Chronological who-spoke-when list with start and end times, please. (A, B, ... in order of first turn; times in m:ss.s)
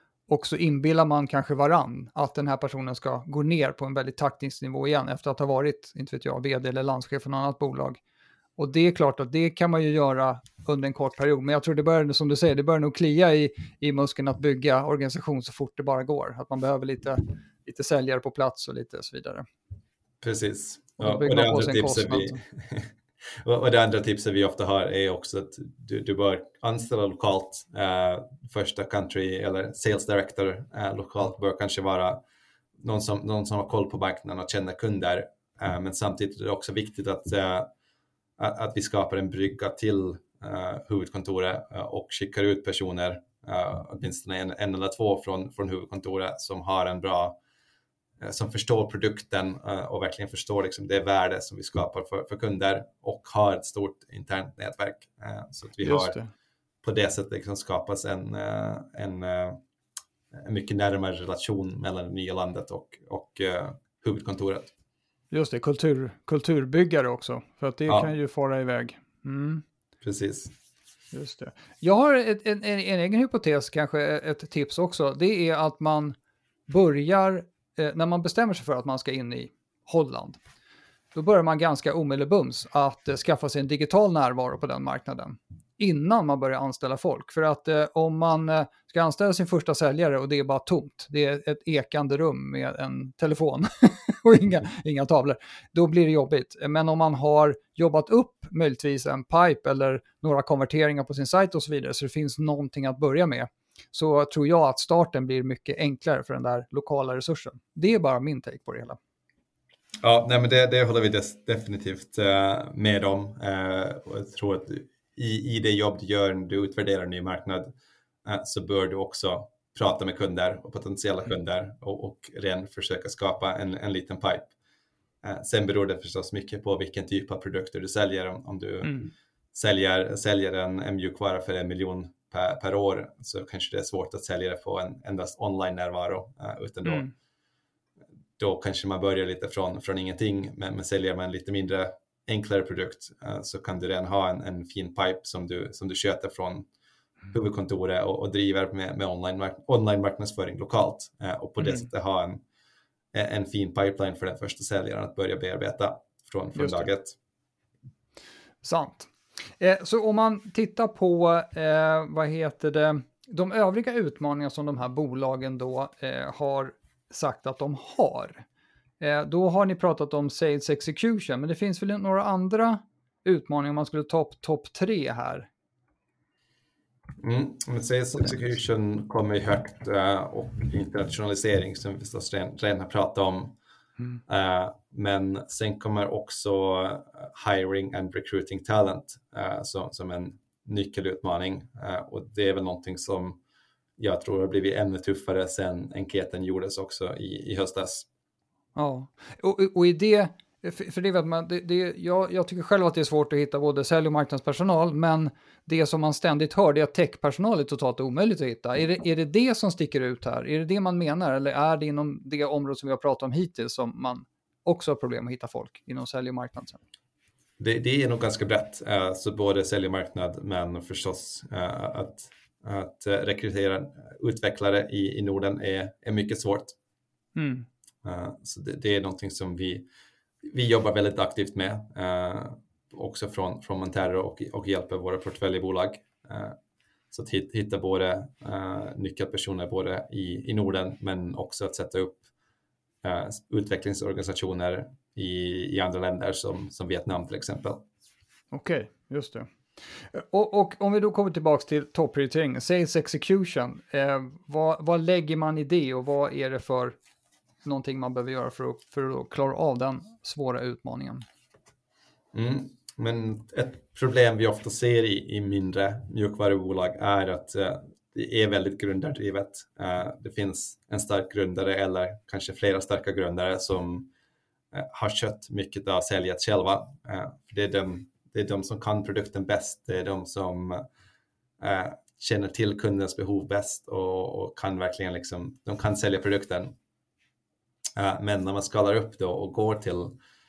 0:00.3-0:08.0 A
0:08.6-0:19.5 A
0:20.2-0:22.9 B
0:21.0-0:22.4 A
0:23.4-0:32.2 B
0:32.8-0:37.7 B
0:38.4-0:47.4 B
0:48.2-0:56.2 B
0:55.8-0:56.3 A
0:56.8-0:59.6 B
1:00.3-1:04.7 B
1:05.3-1:09.6 A
1:10.0-1:10.5 B
1:11.1-1:16.2 A
1:16.7-1:20.4 A
1:21.2-1:49.0 A
1:50.0-1:57.7 B
1:58.2-2:04.5 B
2:05.2-2:09.0 B
2:08.8-2:09.1 A
2:09.5-2:17.1 B
2:16.8-2:17.1 A
2:18.4-2:26.7 B
2:27.3-2:32.4 B
2:33.1-2:37.2 B
2:36.6-2:36.9 A
2:38.6-2:48.5 A
2:49.0-2:55.5 A
2:57.2-3:03.6 B
3:04.3-3:13.4 B
3:14.0-3:18.1 B
3:18.8-3:36.8 A
3:37.6-3:46.8 B
3:47.4-3:47.7 A
3:48.0-3:49.8 B
3:50.4-3:56.6 B
3:57.1-4:02.2 B
4:03.0-4:07.8 B
4:08.5-4:09.5 A
4:10.0-4:17.0 A
4:17.6-4:21.2 A
4:22.3-4:34.1 B
4:34.7-4:40.8 B
4:41.6-4:46.7 B
4:48.0-4:50.2 B